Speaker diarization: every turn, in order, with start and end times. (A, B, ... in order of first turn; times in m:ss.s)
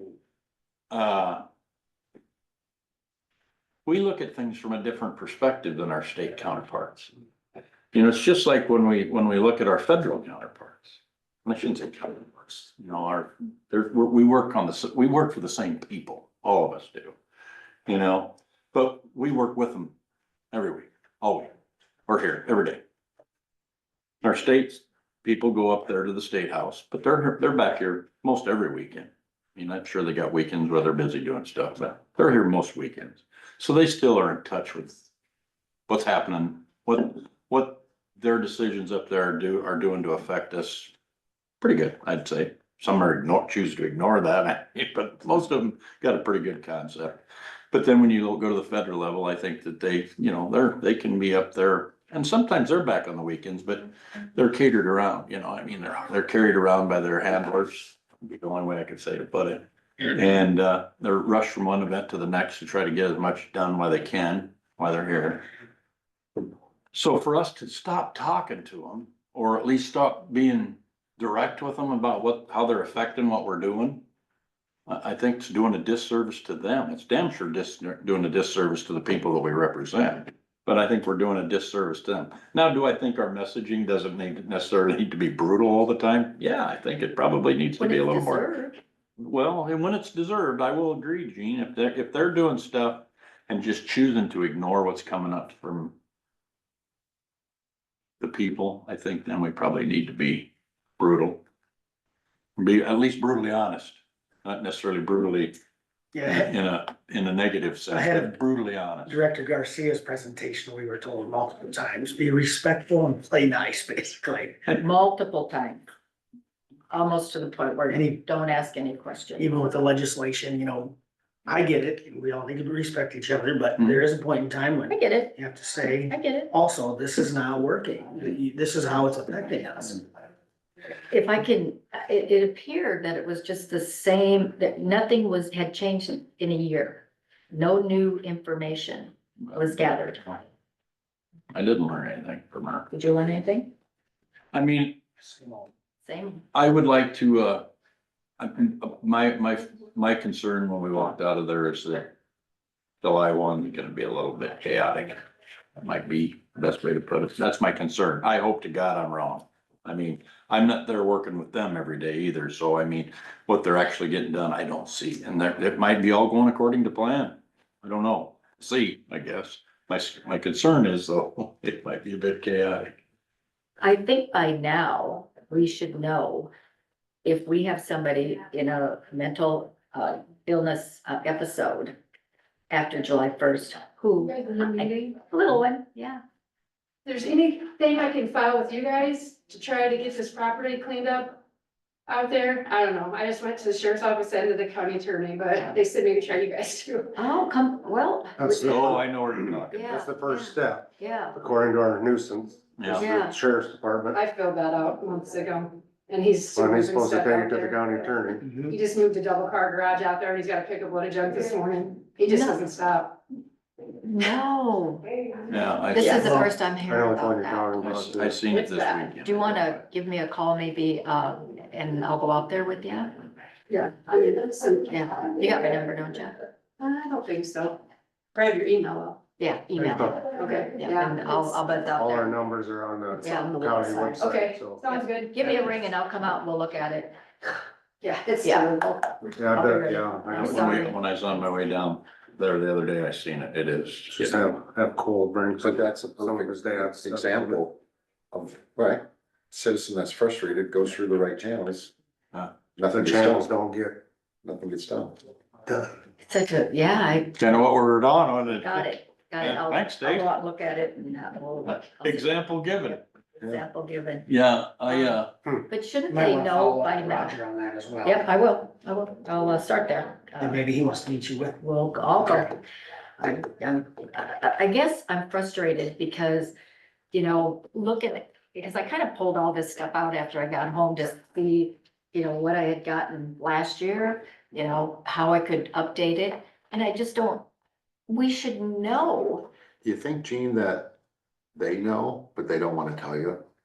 0:00.9-0:01.4 A
0:03.9-0:07.1 A
0:07.9-0:17.2 A
0:17.9-0:19.9 A
0:20.5-0:21.5 A
0:22.1-0:22.8 A
0:24.2-0:35.1 A
0:35.9-0:40.9 A
0:41.6-1:05.5 A
1:06.9-1:14.0 A
1:14.9-1:28.5 A
1:27.8-1:28.8 B
1:29.2-1:36.0 A
1:38.2-1:41.4 A
1:42.6-1:45.6 A
1:46.1-1:46.6 C
1:46.2-1:49.2 A
1:47.9-1:48.4 C
1:49.1-1:54.8 C
1:54.7-1:55.8 B
1:56.9-1:59.6 B
1:57.9-1:58.2 C
1:59.4-2:10.0 C
2:03.8-2:04.0 A
2:04.9-2:05.4 B
2:05.9-2:06.5 B
2:11.1-2:20.4 B
2:21.5-2:22.9 A
2:22.9-2:23.7 B
2:24.5-2:25.0 A
2:26.0-2:26.4 B
2:26.5-2:27.7 A
2:28.4-2:32.1 A
2:33.0-2:35.2 A
2:35.8-2:53.0 A
2:53.8-2:56.5 B
2:57.2-3:02.0 B
3:02.7-3:06.2 B
3:04.3-3:05.2 D
3:07.1-3:11.4 D
3:12.1-3:17.2 D
3:17.2-3:18.5 B
3:18.4-3:24.2 E
3:18.6-3:19.9 A
3:19.7-3:21.4 B
3:22.8-3:23.1 A
3:22.9-3:23.4 B
3:24.1-3:33.2 D
3:26.6-3:28.4 E
3:28.4-3:28.8 C
3:32.3-3:32.6 B
3:34.0-3:35.1 B
3:35.5-3:36.5 A
3:35.9-3:37.8 B
3:36.0-3:36.4 D
3:36.4-3:38.4 E
3:37.8-3:39.8 A
3:38.5-3:39.1 D
3:39.0-3:43.2 B
3:43.7-3:45.6 D
3:44.9-3:46.4 B
3:46.8-3:47.8 D
3:48.3-3:49.2 D
3:49.4-3:52.4 B
3:49.8-3:50.2 E
3:50.3-3:51.6 D
3:51.9-3:54.8 E
3:53.2-3:54.3 B
3:54.2-3:55.8 D
3:54.9-3:57.2 B
3:58.0-3:59.4 D
3:58.4-3:58.7 B
3:59.4-4:00.8 E
3:59.5-4:01.1 B
4:00.4-4:04.4 A
4:04.2-4:07.6 E
4:05.6-4:07.8 F
4:08.3-4:11.9 F
4:12.8-4:13.5 F
4:12.9-4:14.0 E
4:14.4-4:15.2 F
4:16.2-4:17.5 B
4:17.4-4:20.3 A
4:18.6-4:24.3 B
4:22.0-4:23.0 A
4:24.3-4:25.3 A
4:24.9-4:27.4 B
4:26.1-4:28.2 C
4:28.0-4:30.6 B
4:30.4-4:31.6 C
4:31.6-4:32.6 B
4:33.2-4:36.5 B
4:37.1-4:47.5 B
4:48.1-4:49.5 B
4:49.8-4:51.0 F
4:51.6-4:53.4 F